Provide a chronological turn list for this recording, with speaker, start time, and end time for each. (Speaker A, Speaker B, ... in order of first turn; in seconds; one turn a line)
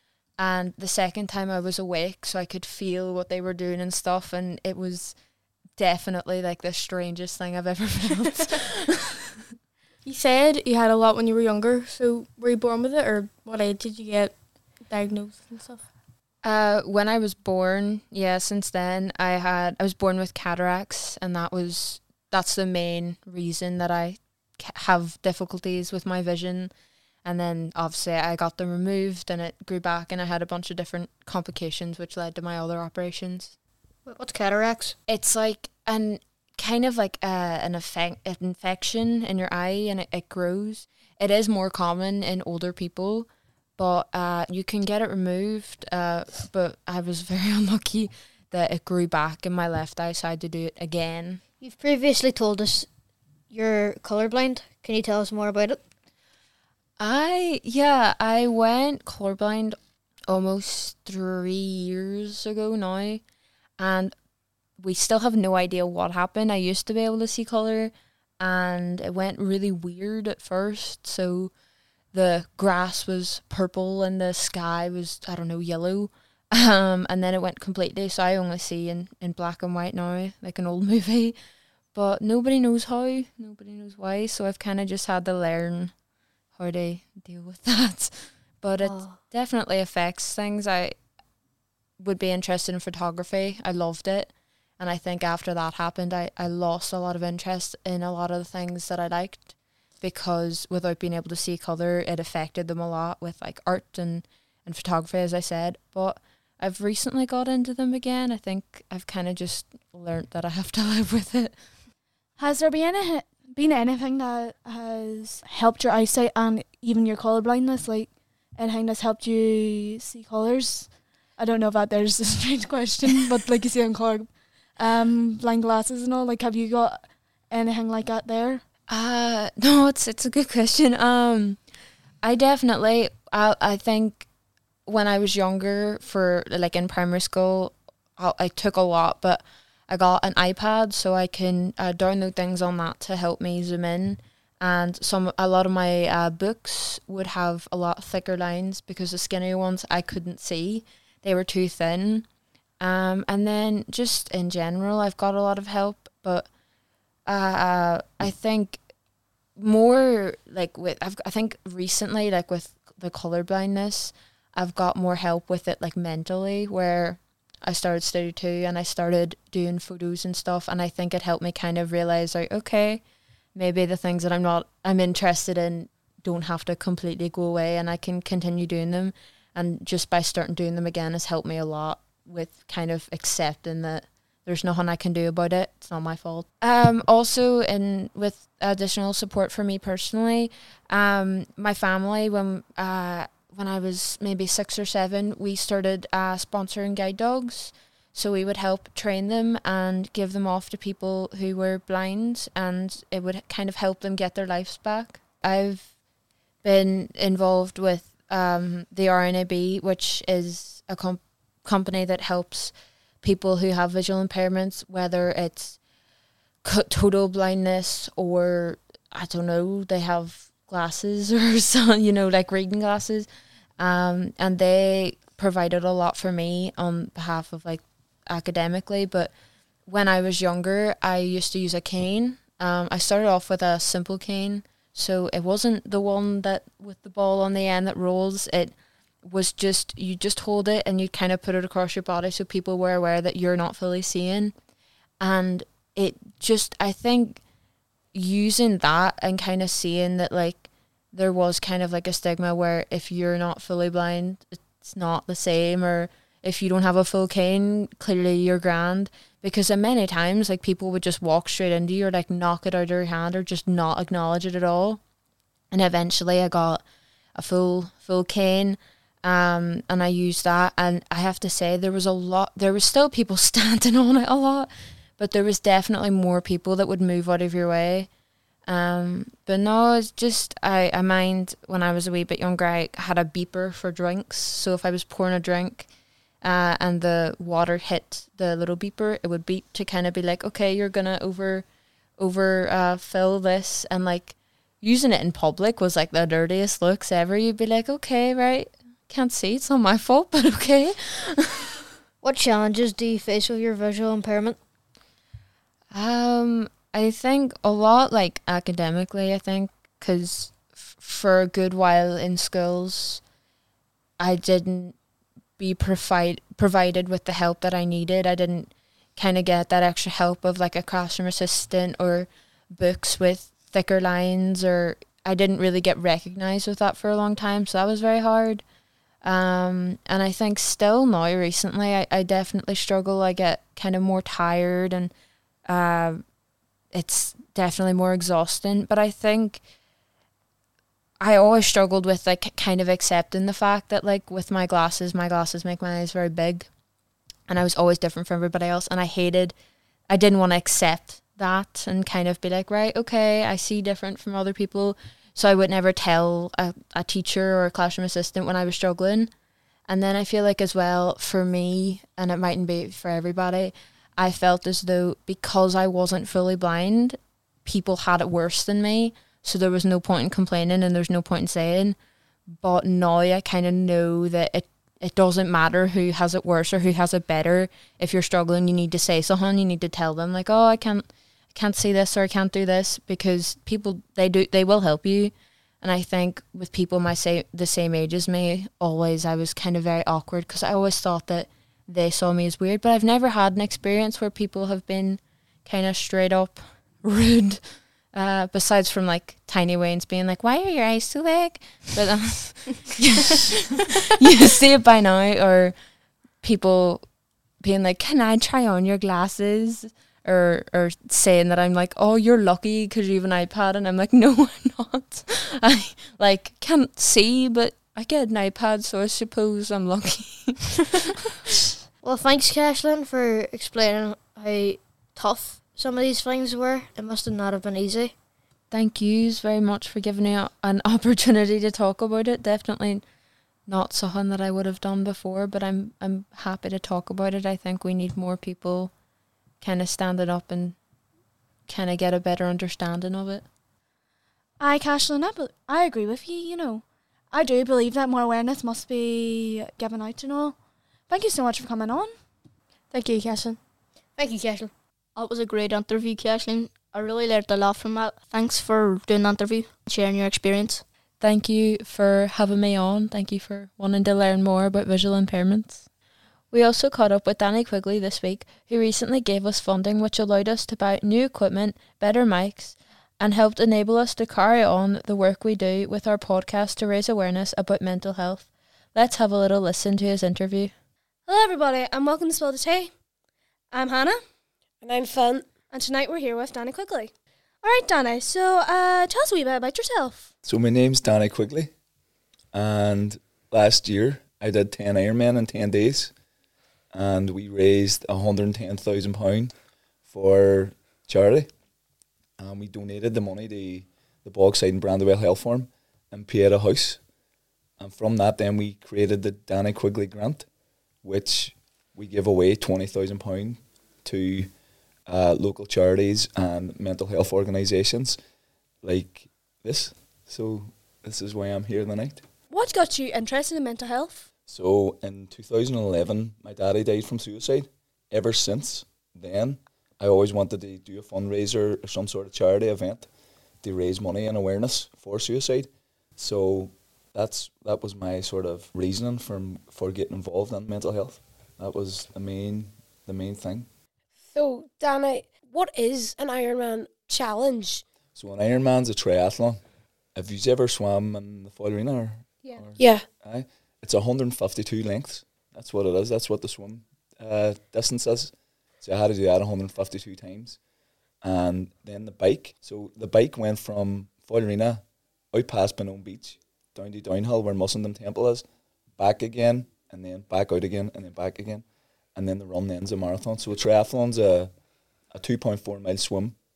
Speaker A: 0.4-5.2
Speaker A: 5.8-8.9
Speaker B: 10.0-15.8
Speaker A: 16.4-26.7
Speaker A: 27.2-33.5
Speaker C: 34.1-34.9
Speaker A: 35.1-51.4
Speaker C: 51.6-52.9
Speaker C: 53.5-55.8
Speaker A: 57.0-59.8
Speaker A: 60.3-63.2
Speaker A: 63.8-64.1
Speaker A: 64.8-71.5
Speaker A: 72.1-81.3
Speaker A: 81.9-85.9
Speaker A: 86.5-91.0
Speaker C: 88.8-89.2
Speaker A: 92.0-111.6
Speaker D: 112.4-128.6
Speaker A: 128.9-131.6
Speaker A: 132.2-134.3
Speaker A: 134.9-152.2
Speaker A: 152.8-156.5
Speaker A: 157.3-158.8
Speaker A: 159.6-173.0
Speaker A: 173.5-205.9
Speaker A: 206.6-215.8
Speaker A: 216.6-223.3
Speaker A: 223.8-229.3
Speaker A: 229.9-238.7
Speaker A: 239.2-244.5
Speaker A: 245.2-247.4
Speaker A: 248.1-265.0
Speaker A: 265.7-266.8
Speaker A: 267.4-278.1
Speaker A: 278.7-285.9
Speaker A: 286.4-291.6
Speaker A: 292.2-301.7
Speaker C: 302.2-304.6
Speaker A: 305.9-313.2
Speaker A: 314.2-314.9
Speaker A: 315.6-328.6
Speaker A: 329.2-335.1
Speaker A: 335.7-336.2
Speaker A: 336.9-339.6
Speaker A: 341.2-346.7
Speaker A: 347.5-349.5
Speaker A: 350.1-359.3
Speaker A: 359.9-372.0
Speaker A: 372.5-405.7
Speaker A: 406.4-407.0
Speaker A: 407.6-421.0
Speaker C: 422.0-428.1
Speaker A: 428.7-433.0
Speaker A: 433.7-438.9
Speaker A: 439.6-440.8
Speaker A: 441.7-443.4
Speaker E: 444.6-446.8
Speaker D: 445.8-446.1
Speaker D: 447.3-450.5
Speaker D: 451.1-452.1
Speaker B: 452.9-453.6
Speaker C: 454.2-454.7
Speaker F: 455.1-460.8
Speaker A: 461.2-465.8
Speaker A: 466.5-480.7
Speaker E: 481.3-482.9
Speaker E: 483.7-484.2
Speaker G: 484.8-485.5
Speaker E: 485.7-490.3
Speaker H: 490.4-491.7
Speaker H: 492.5-496.1
Speaker H: 496.9-499.5
Speaker H: 500.1-501.5
Speaker H: 502.4-507.0
Speaker H: 507.8-510.4
Speaker H: 511.0-514.5
Speaker H: 515.1-518.2
Speaker H: 518.8-522.2
Speaker E: 522.5-524.3
Speaker H: 524.5-533.1
Speaker H: 533.6-543.7
Speaker G: 544.3-547.8
Speaker H: 548.1-549.6
Speaker H: 550.1-560.6
Speaker G: 552.8-553.0
Speaker H: 561.2-568.4
Speaker H: 569.0-571.6
Speaker H: 572.1-574.5
Speaker H: 575.1-576.4